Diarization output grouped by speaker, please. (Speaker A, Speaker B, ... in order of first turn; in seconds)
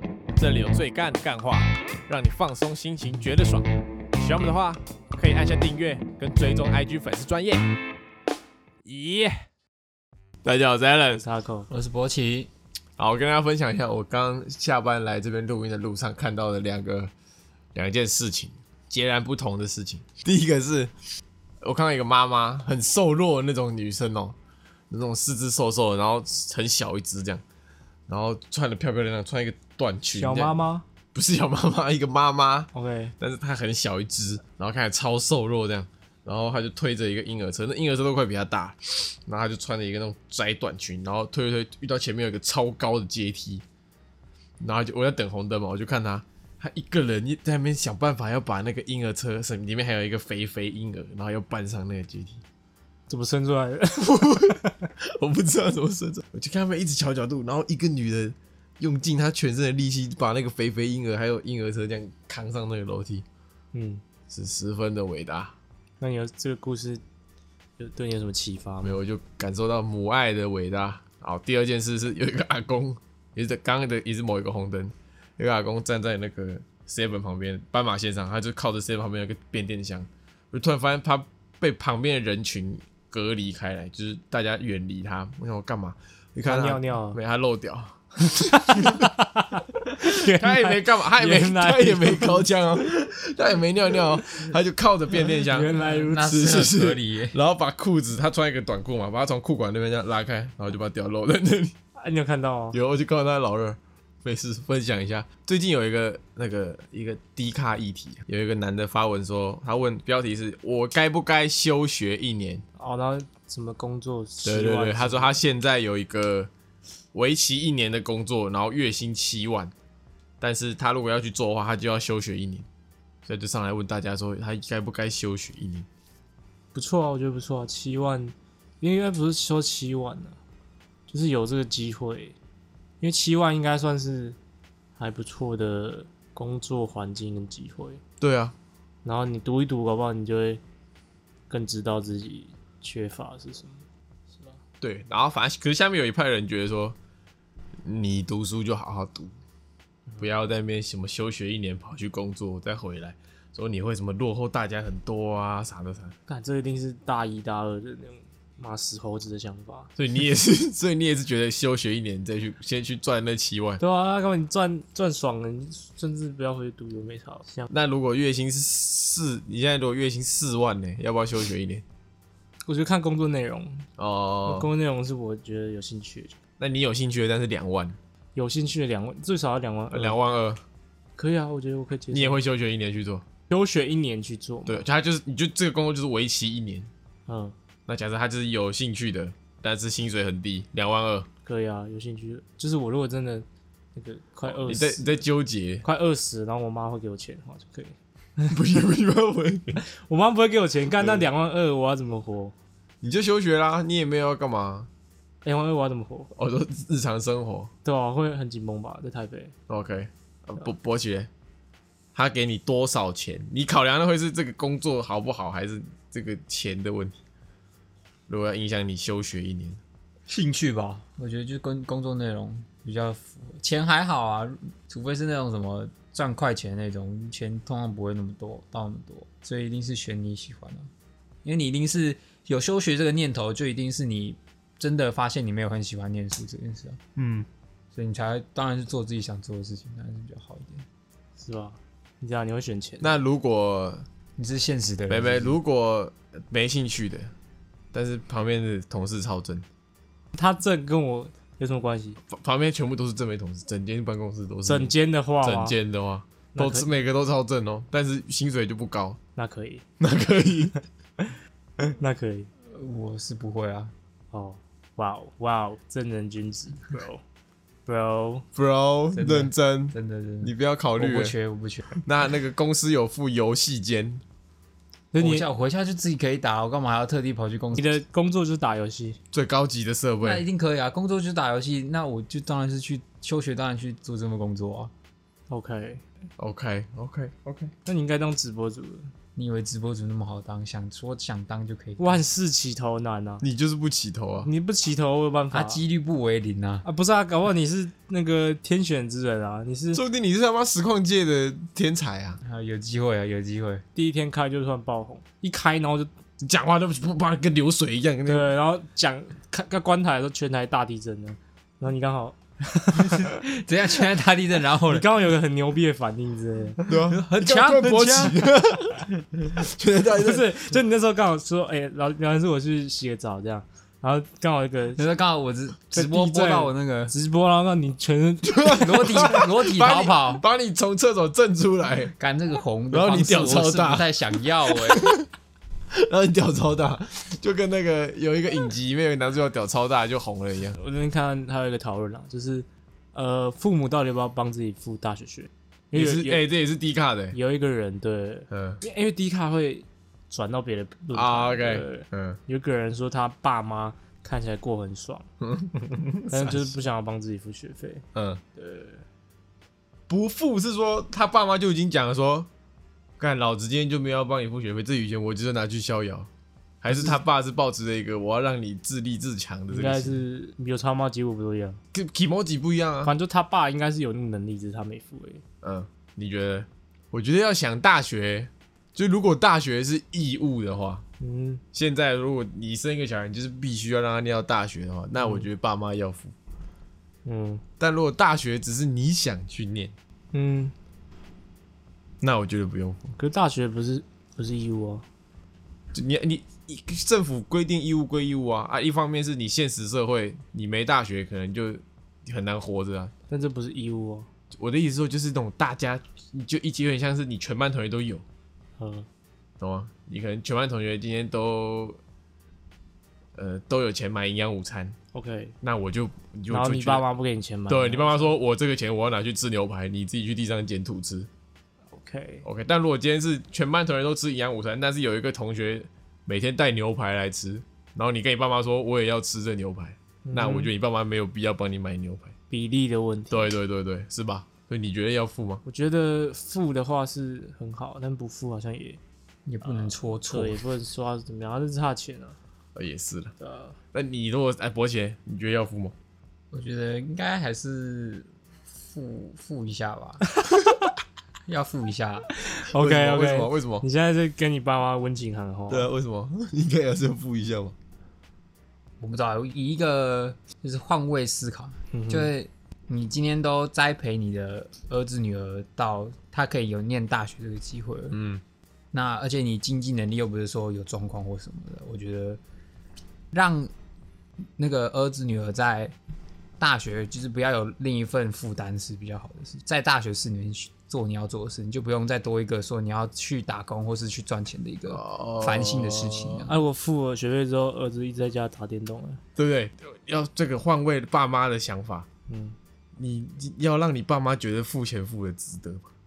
Speaker A: 0.4-7.8, 8.9-9.5, 10.4-11.2, 13.0-17.1, 17.8-20.9, 21.6-24.4, 24.9-27.4, 28.1-30.6, 31.1-43.6, 44.6-52.4, 54.0-63.2, 64.3-65.5, 68.8-89.1, 90.0-101.8, 102.7-112.6, 114.5-116.5, 117.1-119.7, 120.4-122.7, 123.3-125.9, 138.2-138.6, 144.8-147.0, 147.8-149.3, 150.2-156.2, 160.0-163.8, 167.7-171.8, 174.0-174.7, 176.6-178.0, 179.9-180.6, 182.1-183.2, 184.7-186.9, 187.9-191.3, 194.5-195.8, 198.5-199.8, 201.0-201.2, 203.0-204.9, 206.4-207.7, 209.7-211.3, 212.2-217.2, 218.3-219.8, 237.2-237.5, 243.0-244.1, 245.1-247.3, 247.9-249.7, 252.3-259.2, 260.0-260.8, 268.6-271.3, 272.0-274.2, 279.3-280.4, 286.4-287.7, 293.4-294.5, 299.9-302.4, 306.4-308.5, 316.9-320.7, 328.5-332.1, 332.9-334.1, 334.7-335.3, 335.9-340.8, 345.9-347.4, 348.5-348.8, 351.1-352.4, 355.4-356.7, 358.1-358.4, 360.1-362.5, 363.2-366.3, 366.8-370.2, 371.9-373.1, 375.6-381.0, 381.7-386.3, 387.8-389.9, 392.2-393.0, 395.9-403.1, 404.5-408.2, 409.6-412.0, 413.4-415.0, 415.6-417.0, 417.7-421.3, 422.4-432.3, 433.3-435.6, 442.8-443.4, 443.9-445.9, 452.7-453.9, 455.7-457.8, 468.1-468.4, 484.9-486.5, 489.4-492.1, 493.0-495.8
Speaker B: 11.2-11.7, 30.1-30.9, 32.7-33.1, 53.1-54.7, 63.7-64.0, 66.0-67.0, 67.8-69.0, 86.5-87.2, 88.3-92.4, 95.5-96.3, 102.0-102.8, 112.8-115.4, 126.7-130.4, 131.1-132.4, 133.0-134.4, 135.0-138.0, 139.1-140.6, 141.5-144.6, 156.3-159.9, 163.8-167.7, 172.7-173.9, 174.5-176.4, 178.3-180.2, 181.2-182.4, 183.5-184.8, 187.3-187.6, 191.4-195.2, 195.8-198.6, 199.8-202.5, 205.4-206.3, 207.8-209.5, 241.4-243.2, 250.3-252.2, 254.7-255.8, 256.6-256.9, 259.4-259.8, 261.2-262.5, 264.3-267.2, 267.9-268.5, 275.1-275.5, 277.8-279.2, 285.5-286.0, 287.9-289.1, 292.0-293.4, 294.4-295.8, 296.9-300.0, 303.9-306.1, 308.3-313.4, 314.9-316.8, 320.1-325.0, 325.9-329.2, 340.8-346.4, 347.3-355.2, 356.3-359.0, 366.9-367.2, 369.7-371.8, 373.0-375.4, 381.2-381.6, 385.2-385.5, 387.3-387.6, 390.3-390.7, 393.2-395.1, 403.3-404.3, 408.8-409.1, 415.1-415.6, 416.5-418.3, 421.9-422.4, 430.2-430.7, 432.5-433.5, 435.6-439.0, 439.6-442.4, 443.4-443.8, 452.4-455.9, 461.9-462.3, 486.5-489.2, 492.3-492.6
Speaker C: 11.7-12.5, 96.1-97.4, 220.3-230.9, 231.4-237.0, 237.9-240.9, 244.4-245.6, 262.7-263.9, 269.1-271.9, 275.2-278.0, 280.2-284.9, 289.4-292.2, 295.5-296.9, 302.4-303.8, 313.0-315.1, 317.1-318.5, 325.0-327.1, 328.8-330.4, 332.2-335.1, 439.5-440.6, 446.5-450.2, 451.5-452.3, 459.0-468.2, 468.9-472.4, 473.3-473.7, 474.6-475.9, 476.6-486.5